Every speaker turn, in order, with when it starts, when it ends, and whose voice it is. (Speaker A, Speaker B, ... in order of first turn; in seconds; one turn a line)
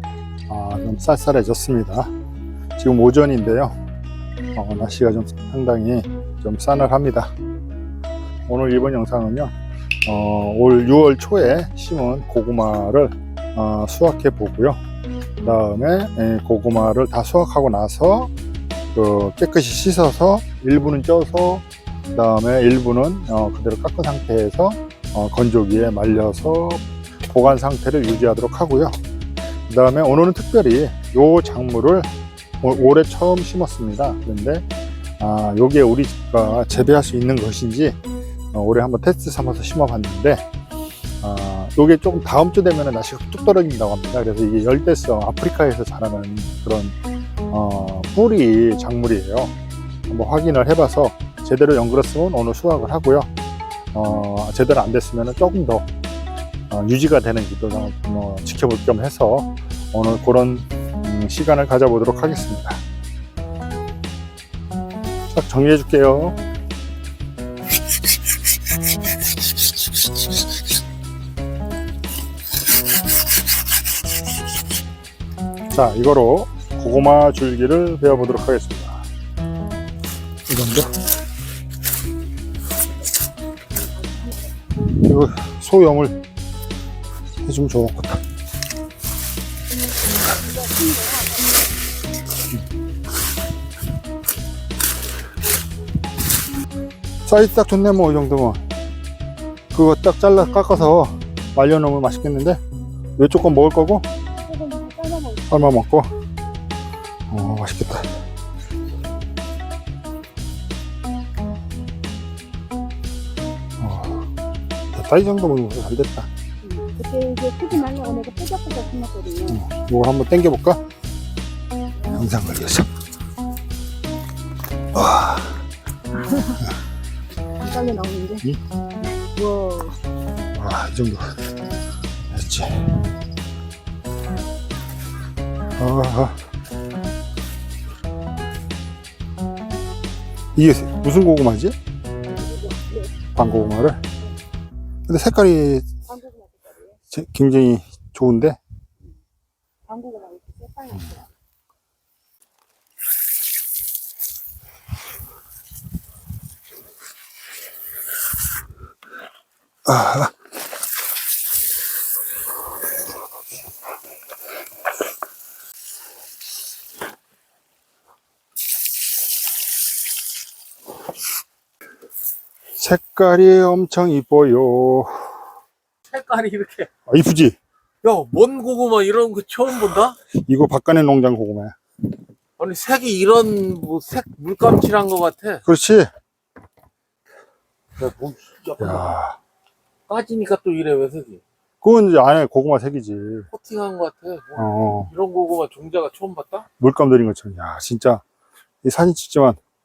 Speaker A: 0.5-2.1
Speaker A: 2.8-3.8
Speaker A: 4.5-7.3
Speaker A: 8.5-9.5
Speaker A: 10.1-14.8
Speaker A: 15.4-18.3
Speaker A: 18.9-29.0
Speaker A: 29.7-32.1
Speaker A: 32.6-34.6
Speaker A: 35.2-38.0
Speaker A: 38.5-40.4
Speaker A: 41.2-46.9
Speaker A: 47.5-49.5
Speaker A: 50.1-53.3
Speaker A: 53.9-55.9
Speaker A: 56.7-62.8
Speaker A: 65.3-66.4
Speaker A: 75.7-79.0
Speaker A: 80.5-80.9
Speaker B: 83.9-84.5
Speaker A: 84.9-86.2
Speaker A: 87.4-88.2
Speaker B: 90.4-91.5
Speaker A: 97.2-98.6
Speaker A: 99.7-102.6
Speaker A: 103.2-104.0
Speaker B: 104.4-105.6
Speaker A: 105.5-106.1
Speaker A: 107.3-108.1
Speaker A: 113.8-114.3
Speaker A: 114.9-116.3
Speaker B: 116.6-119.6
Speaker A: 119.5-120.8
Speaker A: 122.1-122.9
Speaker A: 124.9-125.6
Speaker B: 126.2-126.6
Speaker B: 127.5-128.4
Speaker B: 129.3-130.0
Speaker A: 130.5-131.3
Speaker A: 132.3-133.0
Speaker A: 135.8-136.4
Speaker A: 140.5-141.7
Speaker B: 142.4-143.1
Speaker A: 143.3-144.0
Speaker A: 145.1-145.8
Speaker B: 146.1-147.0
Speaker A: 147.1-148.6
Speaker B: 149.9-151.3
Speaker A: 159.8-160.3
Speaker A: 172.8-175.4
Speaker C: 176.1-176.9
Speaker A: 177.1-177.6
Speaker C: 178.0-180.2
Speaker A: 180.3-181.8
Speaker C: 182.6-185.6
Speaker A: 185.6-186.1
Speaker C: 188.0-189.2
Speaker A: 188.8-189.4
Speaker C: 190.1-191.4
Speaker A: 191.8-193.5
Speaker C: 193.5-196.7
Speaker A: 194.6-195.1
Speaker A: 196.8-198.2
Speaker A: 198.8-199.6